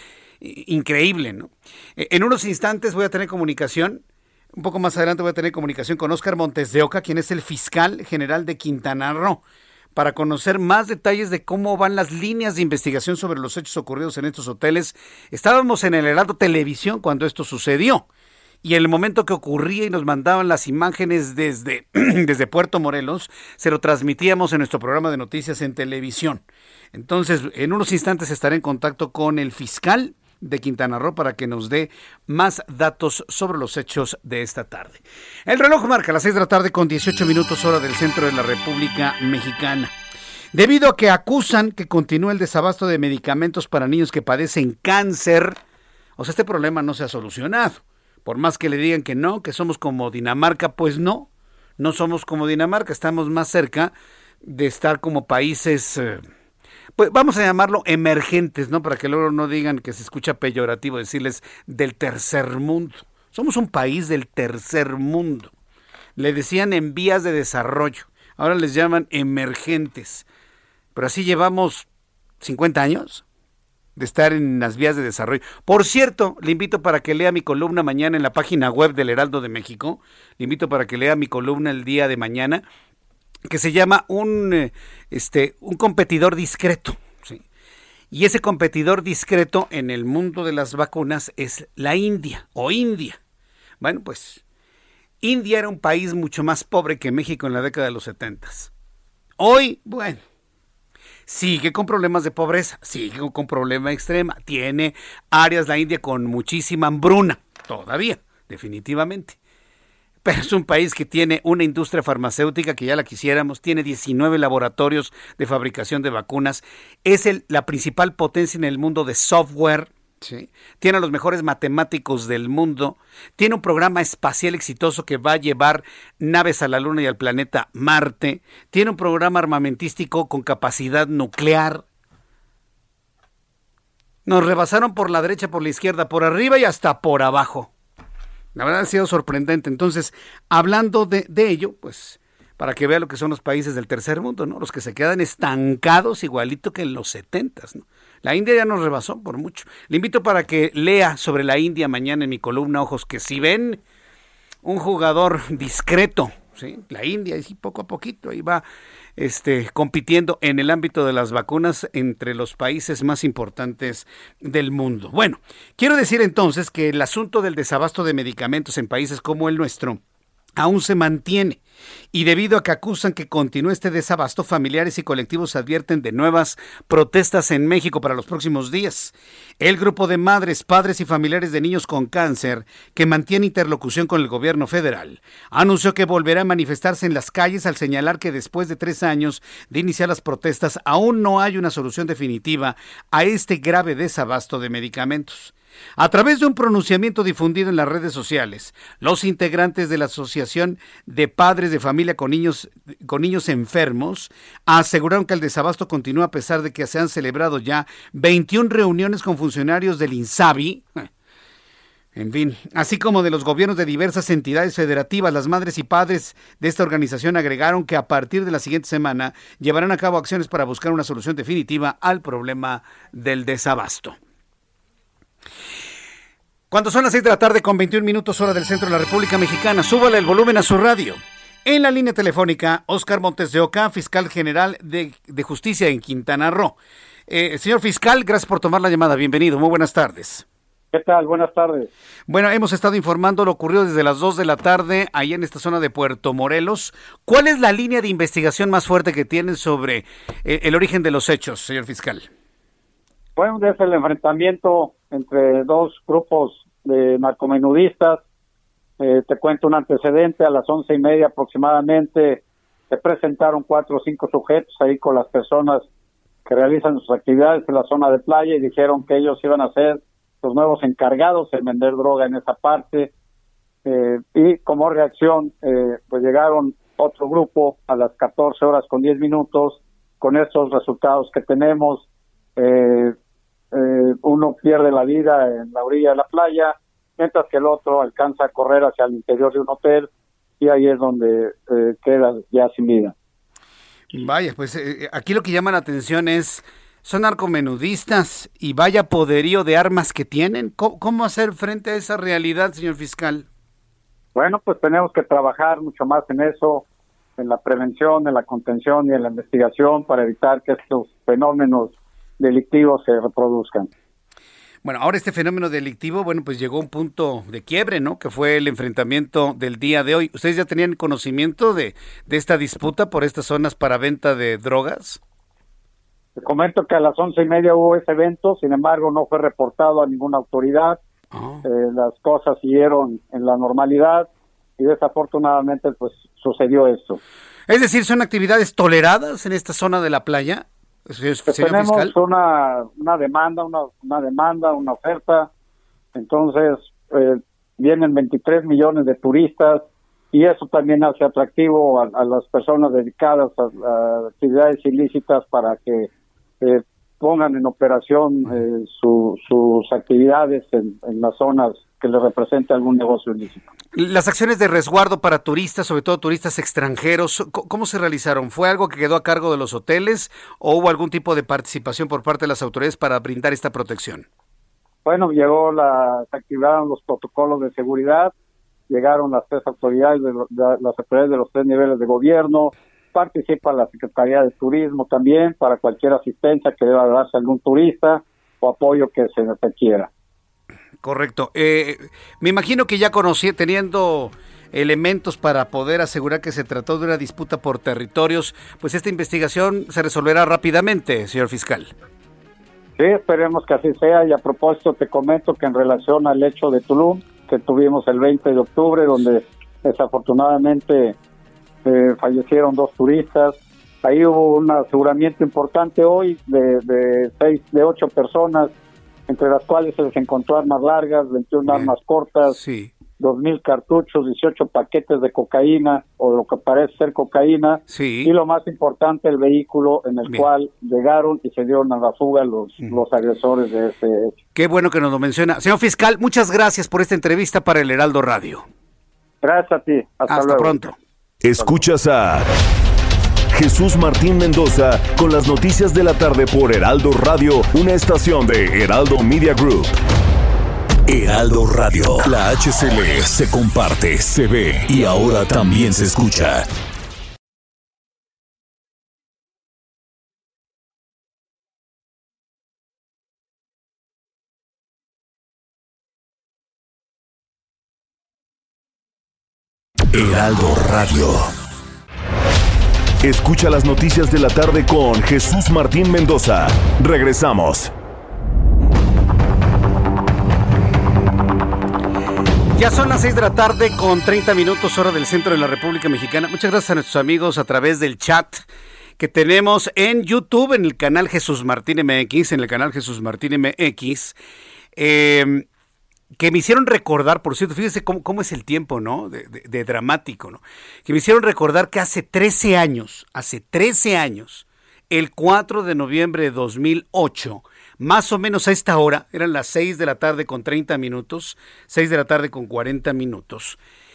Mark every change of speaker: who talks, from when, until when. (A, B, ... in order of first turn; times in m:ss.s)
0:00.4-0:04.0 A
0:04.6-0:09.4 A
0:10.0-0:18.0 A
0:18.6-0:26.4 A
0:26.9-0:39.9 A
0:40.5-0:45.6 A
0:46.2-0:51.3 A
0:51.8-0:53.9 A
0:54.4-0:56.2 A
0:57.0-1:05.5 A
1:06.2-1:10.3 A
1:10.9-1:11.9 A
1:12.4-1:13.2 A
1:14.0-1:22.6 A
1:23.5-1:27.4 A
1:28.1-1:33.2 A
1:33.8-1:34.4 A
1:35.2-1:38.7 A
1:39.4-1:40.2 A
1:41.3-1:49.4 A
1:50.2-2:11.8 A
2:14.2-2:17.7 A
2:18.5-2:33.8 A
2:34.6-2:38.6 A
2:39.2-2:50.0 A
2:50.6-2:51.6 A
2:52.1-3:31.1 A
3:32.2-3:44.2 A
3:46.7-3:56.8 A
3:57.3-4:00.4 A
4:00.9-4:01.9 B
4:02.3-4:12.3 A
4:13.4-4:18.2 B
4:19.0-4:25.8 B
4:26.4-4:33.1 B
4:33.8-4:42.0 B
4:42.6-4:43.1 B
4:43.7-4:50.1 B
4:50.6-4:53.1 B
4:54.1-5:03.5 A
5:04.3-5:06.8 B
5:07.4-5:13.9 B
5:14.8-5:25.2 A
5:26.4-5:31.0 B
5:31.3-5:31.6 A
5:31.6-5:34.3 B
5:34.8-5:37.2 B
5:37.7-5:42.1 A
5:41.5-5:45.5 B
5:46.1-5:56.1 B
5:56.6-6:03.6 B
6:03.9-6:14.2 A
6:15.0-6:18.3 B
6:18.9-6:30.1 B
6:31.0-6:41.9 A
6:43.0-6:51.2 B
6:51.8-6:58.7 B
6:59.3-7:02.6 B
7:01.7-7:01.9 A
7:02.5-7:02.9 A
7:03.2-7:14.3 B
7:07.9-7:08.3 A
7:14.5-7:18.6 A
7:19.4-7:20.8 B
7:20.3-7:21.0 A
7:21.4-7:22.5 C
7:23.5-7:30.0 C
7:31.1-7:36.7 C
7:50.1-7:51.5 C
7:53.2-7:57.9 C
8:02.7-8:08.6 A
8:09.2-8:14.4 A
8:15.0-8:15.6 A
8:16.4-8:33.8 A